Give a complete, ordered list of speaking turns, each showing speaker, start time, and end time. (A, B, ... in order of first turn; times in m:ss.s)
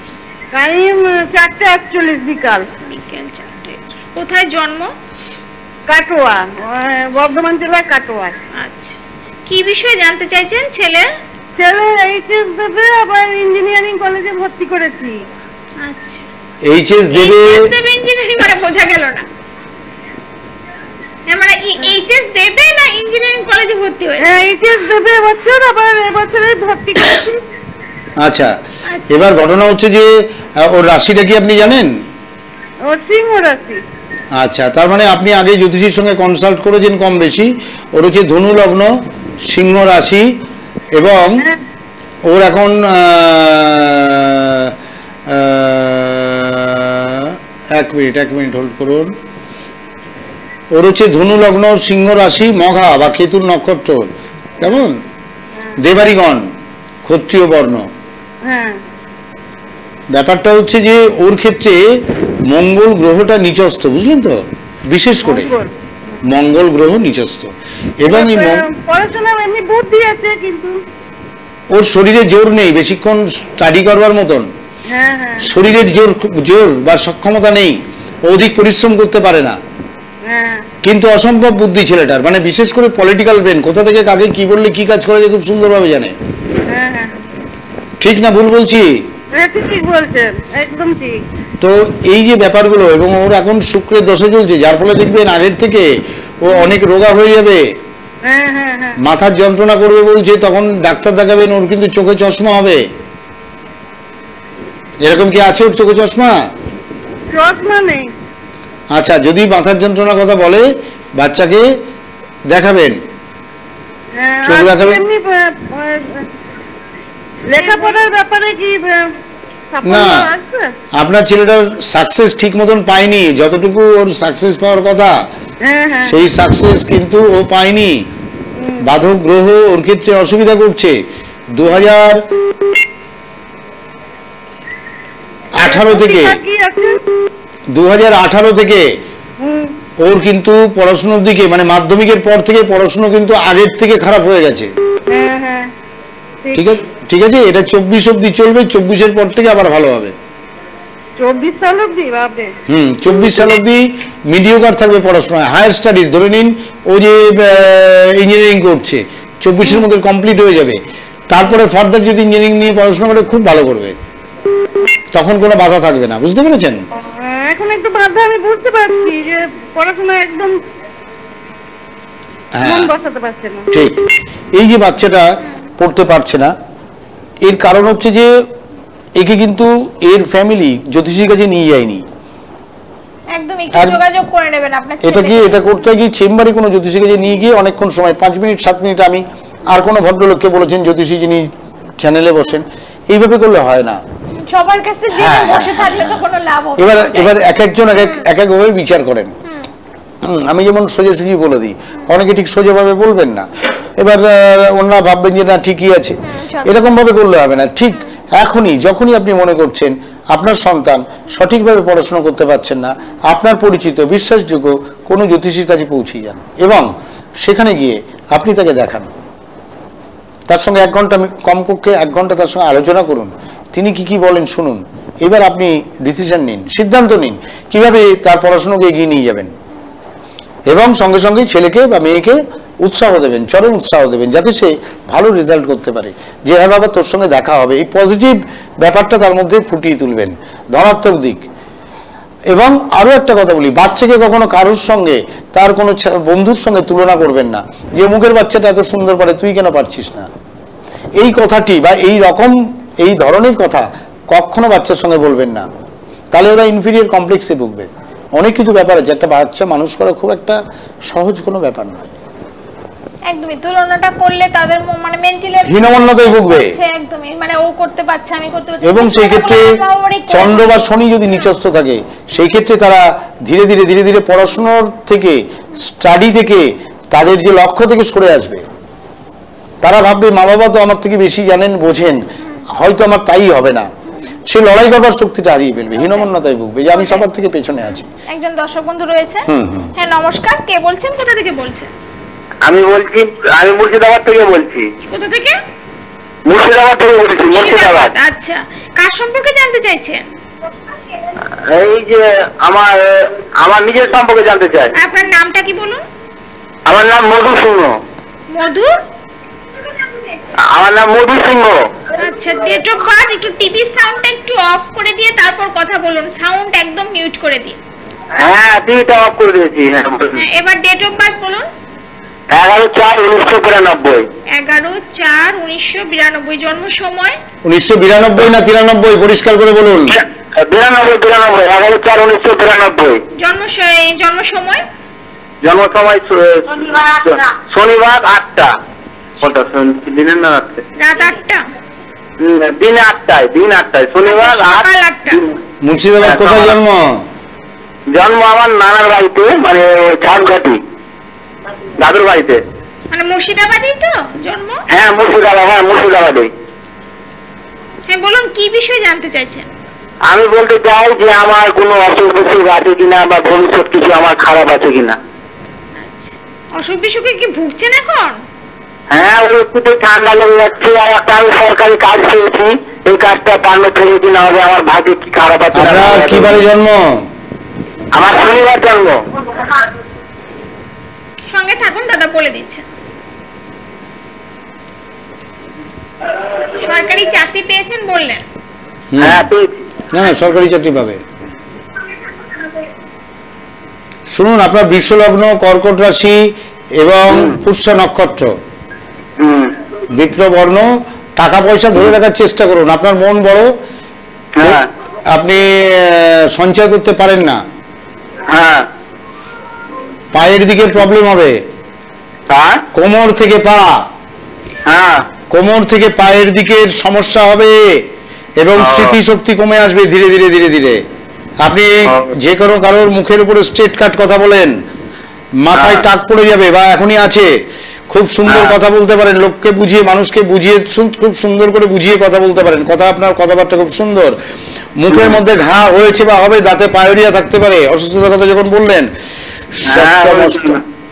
0:00.5-0:02.7 A
0:02.8-0:04.9 B
0:05.9-0:08.4 A
0:08.5-0:11.1 B
0:11.6-0:15.2 A
0:15.8-0:16.3 B
0:16.6-0:17.7 C
0:17.1-0:19.2 B
0:21.3-0:24.3 B
0:24.2-0:27.4 A
0:28.2-0:28.5 C
0:28.9-0:29.2 B
0:29.1-0:31.9 C
0:32.8-0:33.8 A
0:34.4-0:38.9 C
0:39.4-0:40.3 C
0:40.9-0:41.5 C
0:42.3-0:44.7 C
0:45.3-0:49.1 C
0:50.7-0:55.0 C
0:55.8-0:56.4 C
0:57.0-0:57.9 C
0:58.4-0:58.8 A
1:00.1-1:01.8 C
1:02.5-1:05.5 C
1:05.2-1:05.7 A
1:06.2-1:08.6 C
1:08.0-1:10.8 A
1:11.7-1:14.5 C
1:14.9-1:15.5 A
1:15.4-1:19.6 C
1:20.2-1:20.7 A
1:20.8-1:26.1 C
1:26.7-1:27.2 A
1:28.0-1:29.0 C
1:29.3-1:31.2 A
1:31.6-1:35.9 C
1:36.4-1:37.6 C
1:38.2-1:39.0 A
1:39.0-1:42.8 C
1:45.0-1:46.5 C
1:47.3-1:48.1 A
1:48.9-1:51.7 C
1:52.5-1:53.0 C
1:54.2-1:56.2 A
1:54.4-1:55.0 C
1:57.5-1:59.1 A
1:57.6-1:57.9 B
1:59.7-2:00.7 A
1:59.8-2:00.3 C
2:00.9-2:05.2 C
2:05.6-2:06.2 A
2:06.0-2:08.0 C
2:08.6-2:08.8 A
2:08.8-2:11.0 C
2:11.5-2:12.2 C
2:15.5-2:16.4 C
2:15.6-2:17.0 A
2:17.7-2:18.9 C
2:19.4-2:19.7 A
2:20.0-2:24.7 C
2:25.1-2:25.7 A
2:26.4-2:26.8 A
2:26.5-2:30.1 C
2:31.2-2:32.5 A
2:32.7-2:40.8 C
2:41.3-2:44.0 C
2:45.1-2:46.8 C
2:47.0-2:50.6 A
2:52.6-2:52.9 C
2:52.6-2:53.7 A
2:53.7-2:55.3 C
2:55.8-2:56.5 C
2:57.4-2:58.3 C
2:59.2-3:02.0 C
3:03.3-3:05.6 B
3:03.7-3:04.0 C
3:05.0-3:14.0 C
3:14.4-3:17.3 B
3:15.1-3:16.2 C
3:16.8-3:19.3 C
3:20.2-3:36.9 C
3:26.3-3:26.7 B
3:37.4-3:39.1 C
3:40.5-3:49.5 C
3:50.7-4:01.4 C
4:02.5-4:10.3 C
4:11.2-4:15.7 C
4:16.3-4:22.1 C
4:23.3-4:30.8 B
4:25.6-4:26.8 C
4:28.8-4:29.8 C
4:30.3-4:38.6 C
4:39.8-4:42.2 C
4:42.7-4:43.9 C
4:44.4-4:48.1 C
4:46.9-4:47.2 B
4:48.3-4:51.9 B
4:49.4-4:49.9 C
4:52.6-4:54.9 D
4:55.1-4:55.6 B
4:56.4-4:58.1 D
4:57.5-5:00.2 B
5:01.7-5:04.9 D
5:05.0-5:06.0 B
5:06.8-5:08.0 D
5:08.5-5:08.9 B
5:10.7-5:11.8 D
5:12.2-5:17.8 B
5:18.4-5:20.4 D
5:20.3-5:21.6 B
5:22.5-5:24.2 D
5:24.5-5:27.4 B
5:27.6-5:30.2 C
5:30.1-5:33.2 D
5:33.4-5:34.8 B
5:35.6-5:38.7 D
5:39.4-5:40.8 D
5:41.0-5:41.6 B
5:42.4-5:45.5 D
5:44.2-5:45.4 B
5:45.8-5:47.2 C
5:46.2-5:46.8 D
5:48.1-5:50.8 D
5:52.0-5:52.6 D
5:53.1-5:54.8 B
5:54.9-5:56.5 D
5:58.1-5:59.6 B
6:00.2-6:05.2 D
6:06.0-6:08.4 B
6:09.1-6:16.5 D
6:15.7-6:17.2 C
6:18.1-6:19.2 D
6:21.5-6:22.8 B
6:26.8-6:28.4 B
6:29.1-6:29.5 C
6:29.2-6:29.8 D
6:30.1-6:31.2 C
6:34.3-6:36.4 C
6:37.0-6:38.5 C
6:37.3-6:37.6 D
6:39.4-6:39.7 D
6:40.1-6:43.7 C
6:44.6-6:44.9 D
6:45.3-6:47.6 C
6:48.5-6:48.9 D
6:50.3-6:51.6 C
6:52.5-6:52.8 D
6:52.9-6:54.0 C
6:54.9-6:55.2 D
6:55.5-6:58.0 C
6:58.6-7:01.0 C
6:58.8-6:59.1 D
7:01.6-7:04.7 C
7:05.6-7:07.5 C
7:05.8-7:06.0 D
7:08.1-7:14.4 C
7:08.5-7:08.7 D
7:15.0-7:19.1 C
7:19.7-7:20.8 C
7:19.9-7:20.8 D